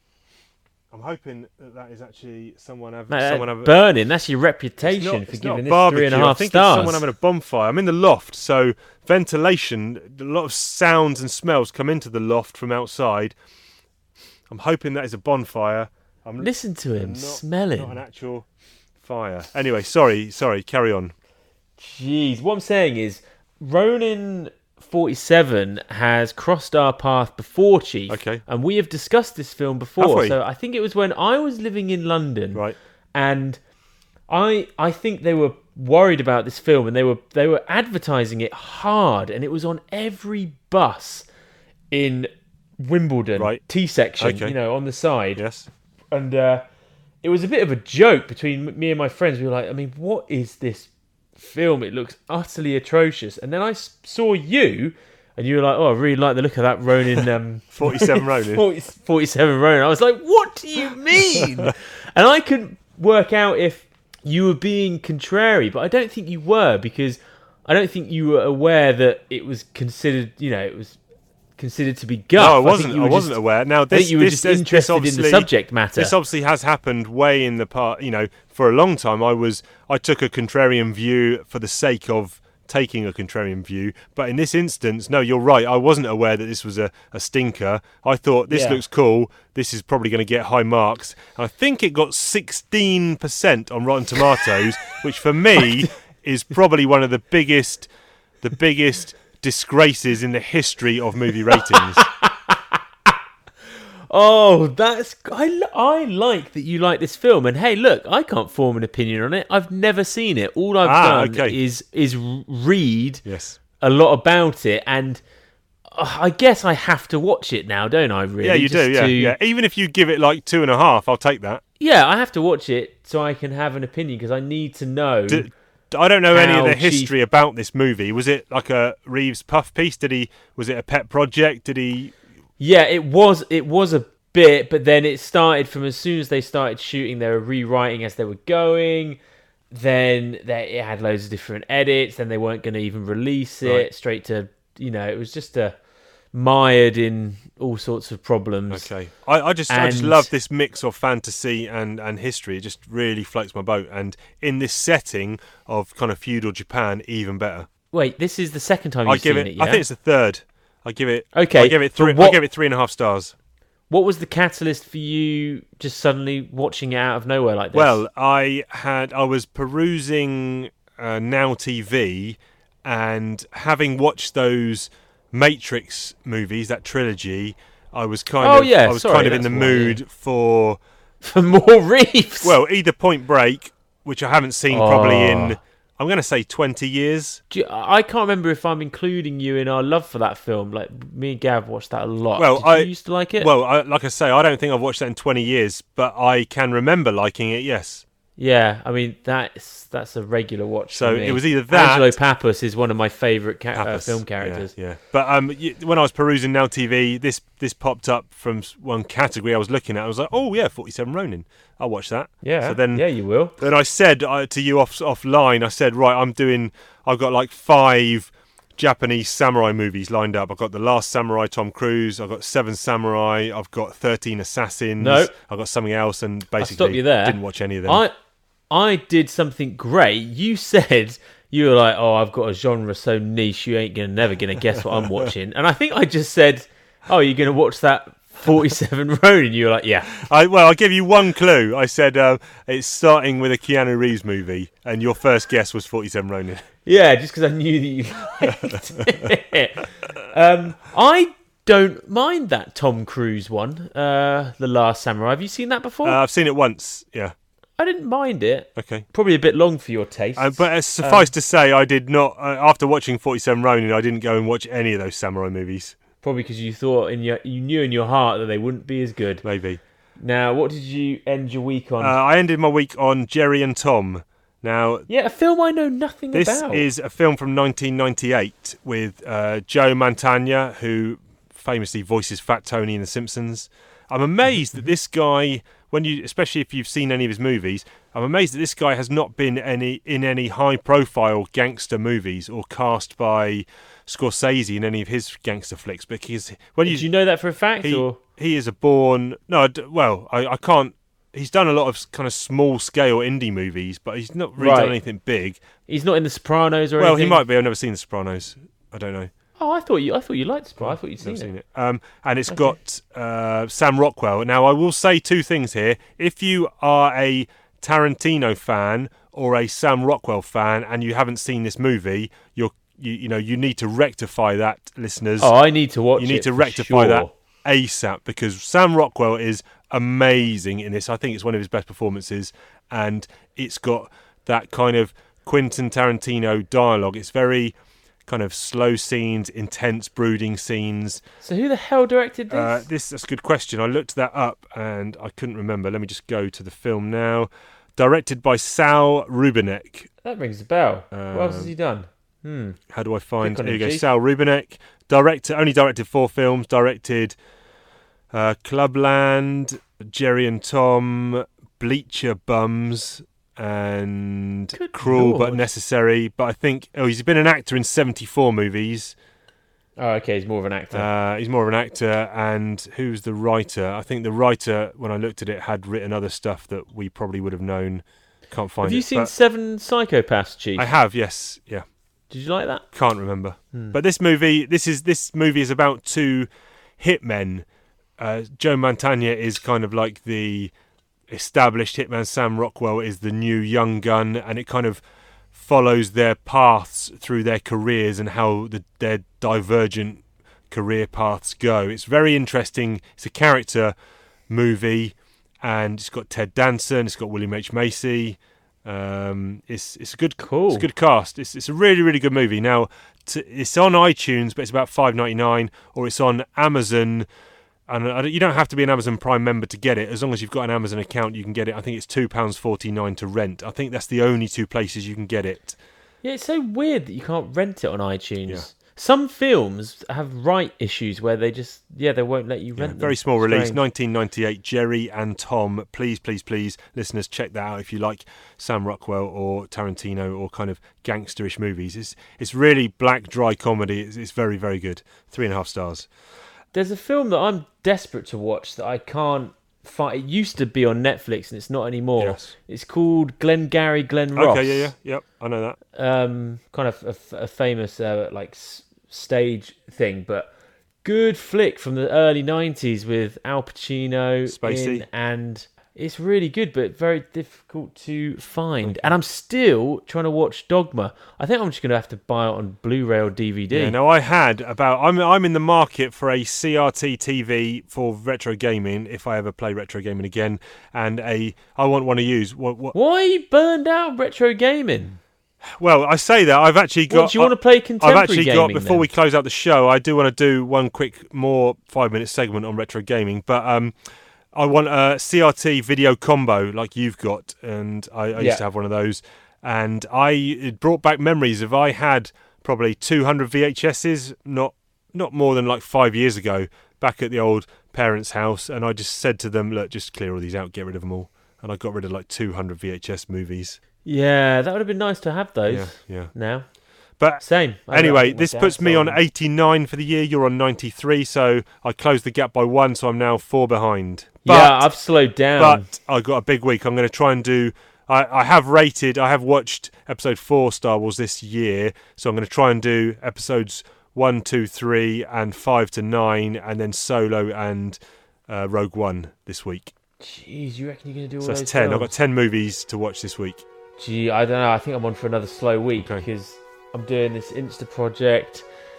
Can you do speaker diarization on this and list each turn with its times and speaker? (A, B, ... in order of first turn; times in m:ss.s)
0:00.9-0:03.7 A
0:03.1-0:07.0 B
0:04.8-0:13.4 A
0:14.5-0:18.4 A
0:16.4-0:18.0 B
0:19.0-0:21.1 A
0:21.8-0:33.6 B
0:28.1-0:28.4 A
0:30.0-0:30.4 A
0:34.3-0:41.3 B
0:41.9-0:45.4 B
0:44.2-0:44.6 A
0:45.4-0:45.7 A
0:46.1-0:46.6 B
0:47.2-1:11.0 B
0:57.7-0:58.6 A
1:11.6-1:13.4 B
1:12.4-1:37.9 A
1:13.9-1:16.1 B
1:28.5-1:28.8 B
1:38.4-1:42.0 A
1:41.7-1:43.1 B
1:44.1-1:53.2 B
1:50.8-1:51.6 A
1:53.3-1:53.6 A
1:53.8-1:55.2 B
1:55.9-1:59.4 B
1:58.4-2:01.6 A
2:01.8-2:05.5 B
2:05.3-2:12.1 A
2:06.3-2:07.1 B
2:12.6-2:19.2 B
2:19.7-2:25.7 B
2:26.3-2:28.9 B
2:28.7-2:37.7 A
2:29.7-2:30.3 B
2:37.9-2:39.8 B
2:39.0-2:43.3 A
2:41.4-2:42.4 B
2:43.9-2:48.0 B
2:47.7-3:00.8 A
2:58.4-3:00.0 B
3:01.2-3:02.6 B
3:02.4-3:07.4 A
3:04.7-3:05.6 B
3:07.5-3:13.5 B
3:12.4-3:18.0 A
3:18.4-3:24.7 B
3:20.9-3:22.1 A
3:23.7-3:33.0 A
3:32.4-3:33.6 B
3:33.6-3:48.0 A
3:45.0-3:45.3 B
3:46.6-3:48.1 B
3:48.7-4:00.2 B
4:00.2-4:06.6 A
4:06.9-4:16.2 B
4:16.0-4:17.4 A
4:17.8-4:21.3 B
4:18.8-4:19.1 A
4:20.4-4:26.0 A
4:26.2-4:29.4 B
4:29.4-4:29.8 A
4:30.2-4:32.2 B
4:32.0-4:35.1 A
4:35.1-4:36.9 B
4:36.3-4:57.1 A
4:56.9-4:58.2 B
4:57.8-5:05.6 A
5:04.6-5:05.0 B
5:05.9-5:07.4 B
5:07.0-5:09.3 A
5:09.6-5:11.5 B
5:10.8-5:25.5 A
5:25.4-5:27.3 B
5:26.2-5:37.7 A
5:38.3-5:41.2 A
5:41.4-5:42.8 B
5:42.5-5:50.1 A
5:50.2-5:52.8 B
5:51.1-5:51.7 A
5:52.9-5:57.4 A
5:53.4-5:54.1 B
5:58.3-6:09.1 A
6:04.7-6:05.7 B
6:10.0-6:11.1 B
6:10.9-6:19.3 A
6:18.8-6:20.9 B
6:20.8-6:21.8 A
6:22.3-6:22.8 B
6:22.9-6:27.7 A
6:28.2-6:30.7 A
6:31.3-6:35.0 A
6:35.5-6:43.9 A
6:44.5-6:57.3 A
6:50.4-6:50.9 B
6:57.9-7:05.8 A
7:06.2-7:13.8 B
7:12.8-7:26.1 A
7:26.7-7:34.9 B
7:32.2-7:32.5 A
7:34.4-7:35.8 A
7:36.0-7:40.5 B
7:41.0-7:54.0 B
7:44.5-7:45.0 A
7:48.8-7:49.1 A
7:53.7-8:03.0 A
8:02.9-8:05.2 B
8:05.6-8:14.0 A
8:07.1-8:09.1 B
8:14.5-8:33.8 A
8:18.4-8:18.6 B
8:34.0-8:36.7 B
8:35.7-8:36.3 A
8:37.2-8:44.9 A
8:37.4-8:39.2 B
8:44.4-8:45.9 B
8:45.6-8:59.9 A
9:00.2-9:02.1 B
9:01.4-9:03.6 A
9:04.0-9:08.6 B
9:06.0-9:06.3 A